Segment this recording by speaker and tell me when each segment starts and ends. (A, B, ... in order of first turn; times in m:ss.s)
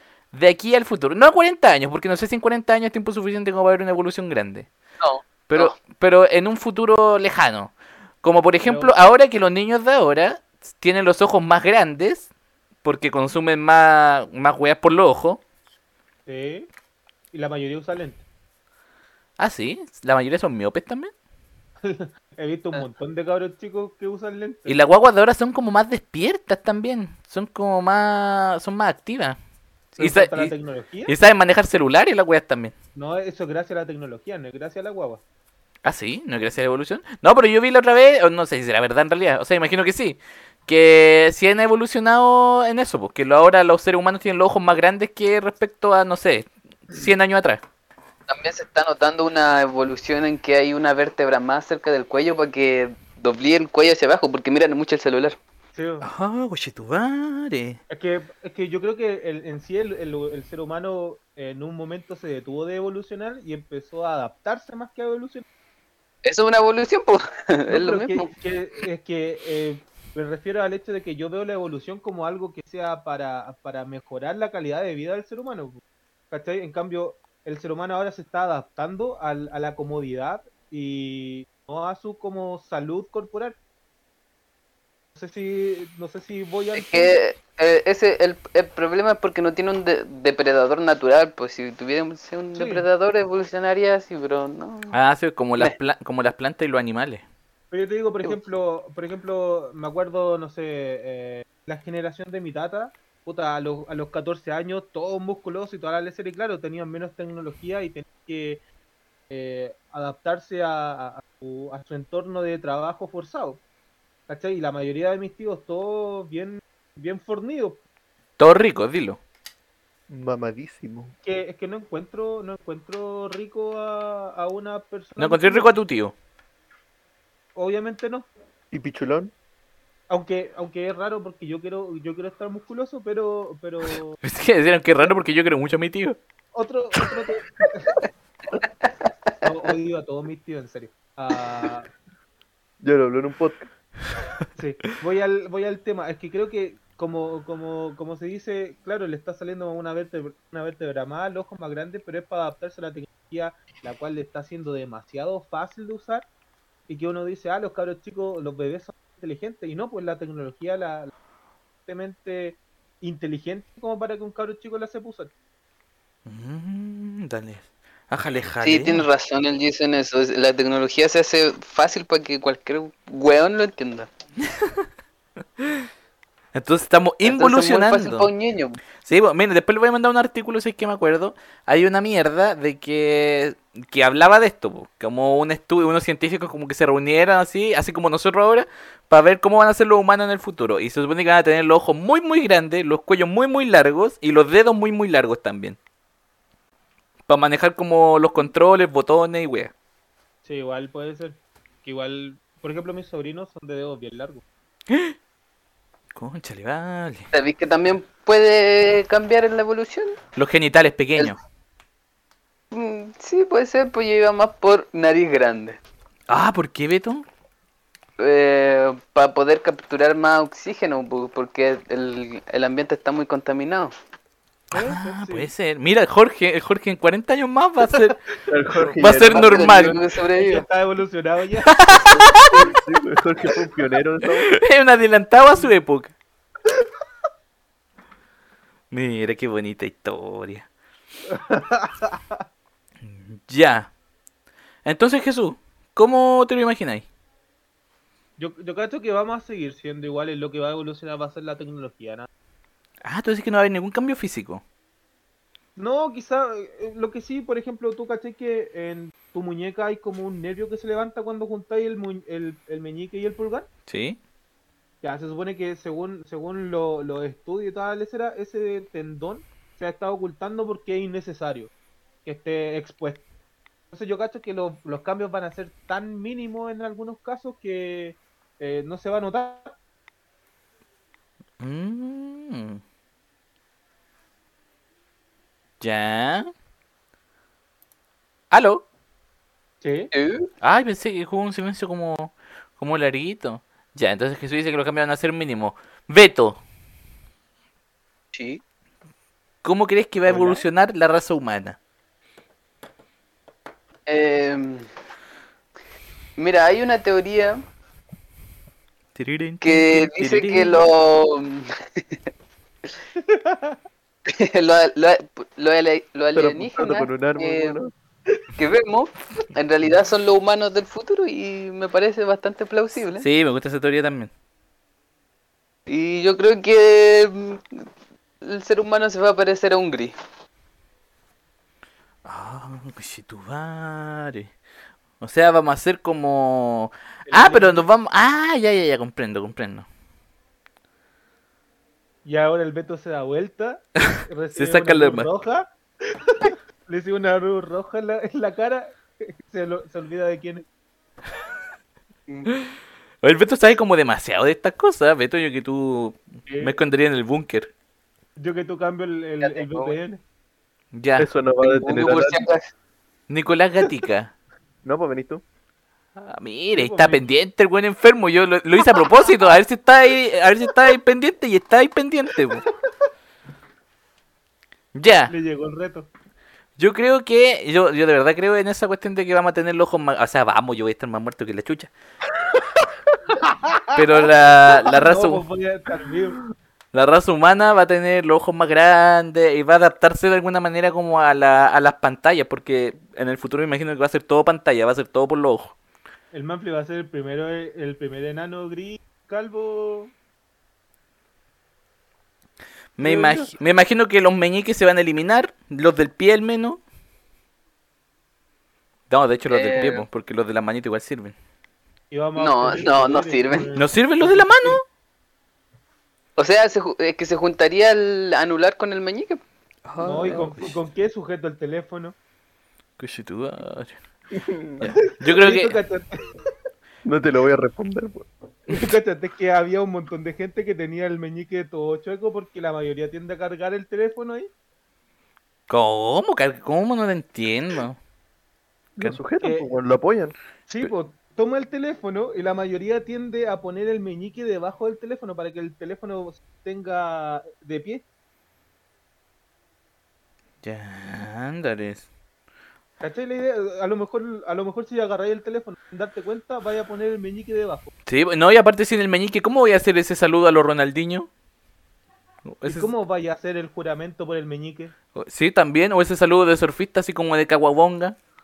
0:00.3-0:04.7 A
0:05.0-0:05.7 B
0:05.5-0:12.3 A
0:08.6-0:08.9 C
0:12.8-0:15.4 A
0:16.3-0:16.7 C
0:17.3-0:18.2 C
0:19.4-0:21.1 A
0:21.8-0:24.8 C
0:24.7-0:29.4 A
0:30.0-0:30.5 A
0:30.0-0:31.1 C
0:31.1-0:32.8 A
0:33.0-0:35.2 C
0:35.8-0:47.6 A
0:48.3-0:55.4 B
0:55.7-0:56.1 C
0:56.0-0:57.8 A
0:57.9-1:05.4 C
1:06.2-1:08.3 B
1:07.7-1:15.8 C
1:16.3-1:23.6 C
1:25.2-1:27.2 C
1:26.8-1:35.0 B
1:32.6-1:32.8 C
1:34.9-1:37.2 A
1:37.7-1:48.6 C
1:49.3-1:53.6 C
1:54.3-1:57.8 C
1:58.4-1:59.2 A
2:00.1-2:01.1 D
2:01.2-2:05.7 C
2:05.2-2:06.1 A
2:07.6-2:08.3 C
2:08.7-2:09.3 D
2:10.1-2:14.2 C
2:14.2-2:16.2 A
2:16.5-2:18.1 C
2:18.6-2:18.9 B
2:19.4-2:21.9 C
2:22.8-2:23.7 D
2:24.6-2:36.3 C
2:36.9-2:41.1 C
2:41.9-2:45.3 C
2:46.3-2:49.0 A
2:48.6-2:54.1 B
2:54.6-2:54.9 A
2:56.5-2:58.3 A
2:57.2-2:58.8 B
2:59.0-3:15.8 A
3:17.3-3:19.7 A
3:20.4-3:24.4 C
3:24.9-3:25.2 A
3:26.2-3:27.3 A
3:27.3-3:30.2 B
3:30.4-3:31.4 A
3:32.7-3:35.8 B
3:36.3-3:37.2 A
3:38.2-3:43.9 B
3:44.7-3:45.5 C
3:44.7-3:48.2 A
3:48.5-3:49.8 D
3:48.7-3:49.0 C
3:49.0-3:50.0 A
3:49.2-3:50.7 B
3:50.3-3:51.9 C
3:51.7-3:52.6 A
3:52.5-3:54.5 D
3:54.5-3:56.1 A
3:58.9-4:00.7 A
4:01.3-4:02.4 C
4:03.1-4:03.9 A
4:04.8-4:07.1 A
4:08.4-4:12.3 C
4:13.0-4:14.6 A
4:15.8-4:23.7 C
4:23.9-4:24.2 A
4:25.0-4:31.7 C
4:32.2-4:33.2 C
4:33.9-4:39.7 C
4:41.6-4:42.8 A
4:45.8-4:46.5 A
4:48.5-4:48.8 A
4:49.8-4:50.1 C
4:50.1-4:50.5 B
4:50.6-4:56.6 A
4:58.3-4:58.6 B
4:59.6-5:01.8 A
5:00.3-5:00.6 C
5:04.1-5:04.9 B
5:06.4-5:07.6 B
5:09.2-5:10.8 A
5:09.6-5:12.2 B
5:13.2-5:13.8 C
5:14.3-5:17.8 B
5:16.3-5:17.9 D
5:18.6-5:23.3 B
5:23.2-5:24.3 A
5:25.9-5:27.8 B
5:28.4-5:30.1 B
5:32.2-5:34.5 A
5:35.2-5:39.9 A
5:37.3-5:37.8 C
5:42.2-5:50.6 C
5:44.1-5:45.3 A
5:53.2-5:57.7 A
5:56.5-5:56.8 C
5:58.4-6:00.2 C
5:59.4-6:00.0 B
6:00.9-6:01.3 A
6:01.2-6:02.4 D
6:01.6-6:02.7 B
6:03.3-6:04.3 A
6:04.8-6:05.4 D
6:06.2-6:12.6 A
6:06.7-6:07.3 C
6:15.0-6:15.3 A
6:15.3-6:16.1 C
6:16.8-6:21.9 A
6:23.4-6:24.0 C
6:23.9-6:25.4 A
6:24.7-6:26.4 C
6:26.9-6:35.8 A
6:36.3-6:40.1 C
6:43.0-6:46.8 A
6:43.0-6:43.4 D
6:49.1-6:51.4 A
6:49.5-6:50.0 B
6:52.1-6:54.8 C
6:52.4-6:53.7 B
6:53.8-6:54.8 A
6:56.4-6:59.4 B
6:59.9-7:00.7 A
7:00.0-7:02.2 C
7:00.2-7:00.5 D
7:03.0-7:04.0 A
7:04.3-7:04.8 D
7:04.8-7:05.8 A
7:05.0-7:06.5 C
7:07.0-7:08.3 D
7:08.7-7:14.5 C
7:15.7-7:18.0 A
7:19.0-7:20.4 D
7:20.7-7:28.0 C
7:30.6-7:32.1 A
7:33.0-7:37.9 C
7:38.1-7:41.3 A
7:42.5-7:42.9 A
7:42.6-7:44.9 C
7:45.2-7:48.2 A